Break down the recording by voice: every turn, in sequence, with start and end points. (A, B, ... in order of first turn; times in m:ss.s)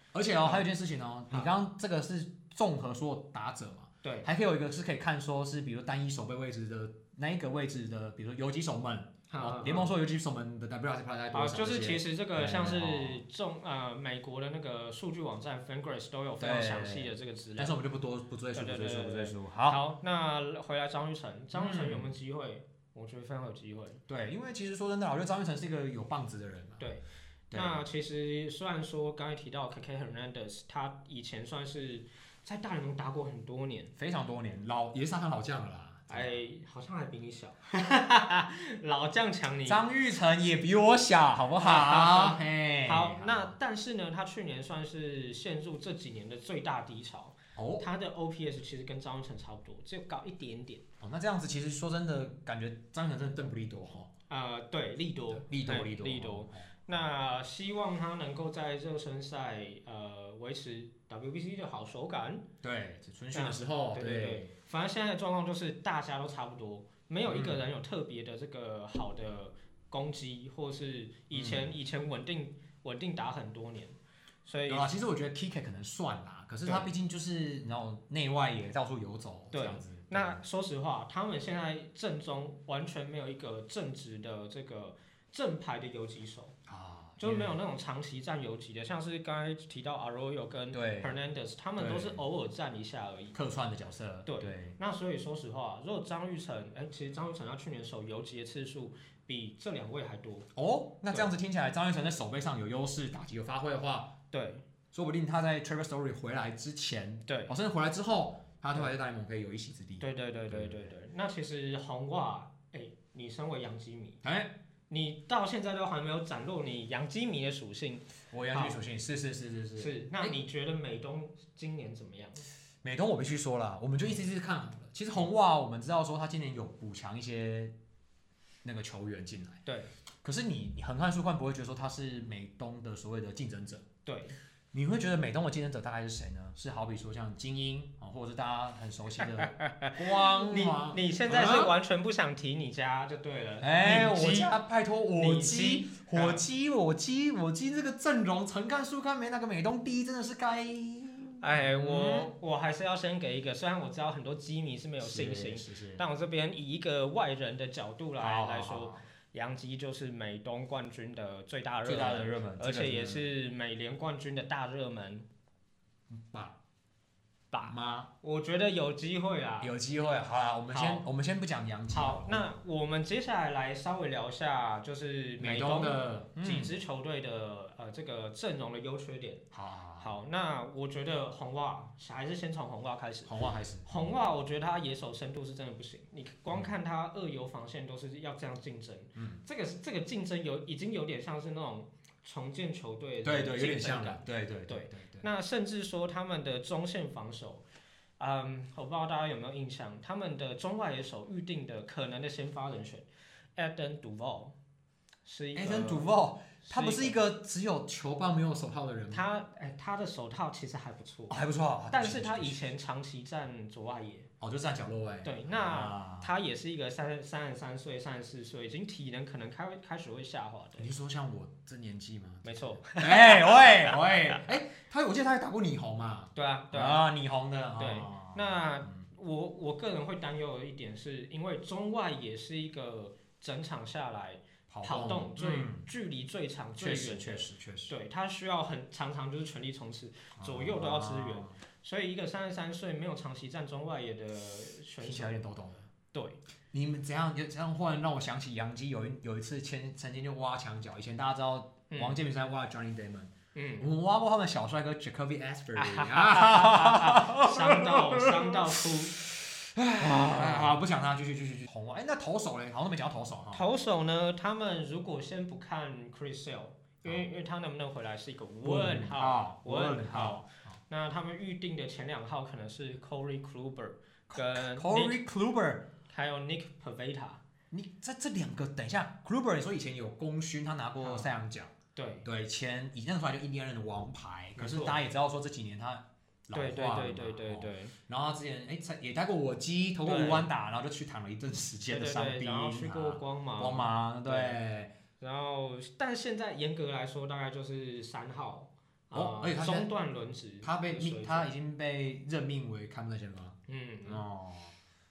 0:00.1-0:13.2 A
0:04.0-0:04.3 B
0:09.3-0:09.9 B
0:11.3-0:17.7 B
0:16.4-0:19.8 A
0:18.5-0:24.0 B
0:21.5-0:22.1 A
0:24.1-0:26.9 A
0:26.8-0:33.9 B
0:27.5-0:27.8 A
0:34.0-0:36.4 A
0:36.1-0:39.8 B
0:39.7-0:43.5 A
0:41.6-0:50.8 B
0:47.6-0:47.9 A
0:51.0-0:54.1 A
0:54.3-1:02.4 B
0:55.3-0:56.7 A
1:02.6-1:04.5 A
1:03.3-1:14.9 B
1:07.2-1:07.6 A
1:11.3-1:11.7 A
1:14.7-1:20.4 A
1:19.5-1:26.6 B
1:26.7-1:27.6 A
1:27.2-1:33.4 B
1:30.7-1:31.2 A
1:31.8-1:32.2 A
1:33.3-1:34.8 A
1:34.3-1:40.5 B
1:40.6-1:44.2 A
1:44.3-1:44.7 B
1:44.9-1:50.9 A
1:47.3-1:47.5 B
1:50.0-1:54.2 B
1:54.2-1:54.5 A
1:54.9-1:58.8 B
1:58.3-2:00.4 A
1:59.8-2:02.5 B
2:02.8-2:07.8 A
2:08.6-2:09.6 A
2:09.7-2:09.9 B
2:10.2-2:13.9 A
2:14.1-2:14.4 B
2:14.7-2:21.7 A
2:19.2-2:24.5 B
2:23.6-2:32.3 A
2:25.2-2:26.4 B
2:31.4-2:45.3 B
2:35.0-2:36.0 A
2:38.2-2:39.0 A
2:41.8-2:43.3 A
2:46.1-2:46.6 A
2:47.5-2:49.7 B
2:47.6-2:48.1 A
2:49.6-2:52.5 A
2:50.7-2:51.0 B
2:51.9-2:59.4 B
2:55.4-2:56.7 A
2:59.5-3:00.1 A
3:00.0-3:17.6 B
3:03.3-3:04.1 A
3:09.2-3:09.4 A
3:13.2-3:15.3 A
3:18.2-3:24.6 B
3:25.2-3:27.2 B
3:25.6-3:29.3 A
3:29.1-3:31.4 B
3:31.3-3:32.6 A
3:31.9-3:34.3 B
3:34.4-3:36.3 A
3:35.2-3:40.9 B
3:40.8-3:49.0 A
3:42.4-3:44.4 B
3:46.4-3:47.0 B
3:47.8-4:05.3 B
3:54.7-3:55.9 A
3:56.8-3:57.9 A
4:00.4-4:01.6 A
4:05.0-4:05.9 A
4:06.1-4:06.4 B
4:06.7-4:23.6 A
4:11.9-4:12.2 B
4:13.6-4:13.9 B
4:15.8-4:19.2 B
4:20.0-4:20.7 B
4:23.5-4:35.2 B
4:28.6-4:30.8 A
4:34.3-4:35.9 A
4:36.1-4:37.4 B
4:37.7-4:41.7 A
4:41.0-4:41.3 B
4:42.0-4:42.3 B
4:42.2-4:54.9 A
4:44.6-4:45.0 B
4:46.5-4:48.0 B
4:50.0-4:50.5 B
4:51.9-4:54.6 B
4:55.2-5:01.5 B
4:59.1-4:59.9 A
5:00.6-5:04.8 A
5:03.7-5:04.2 B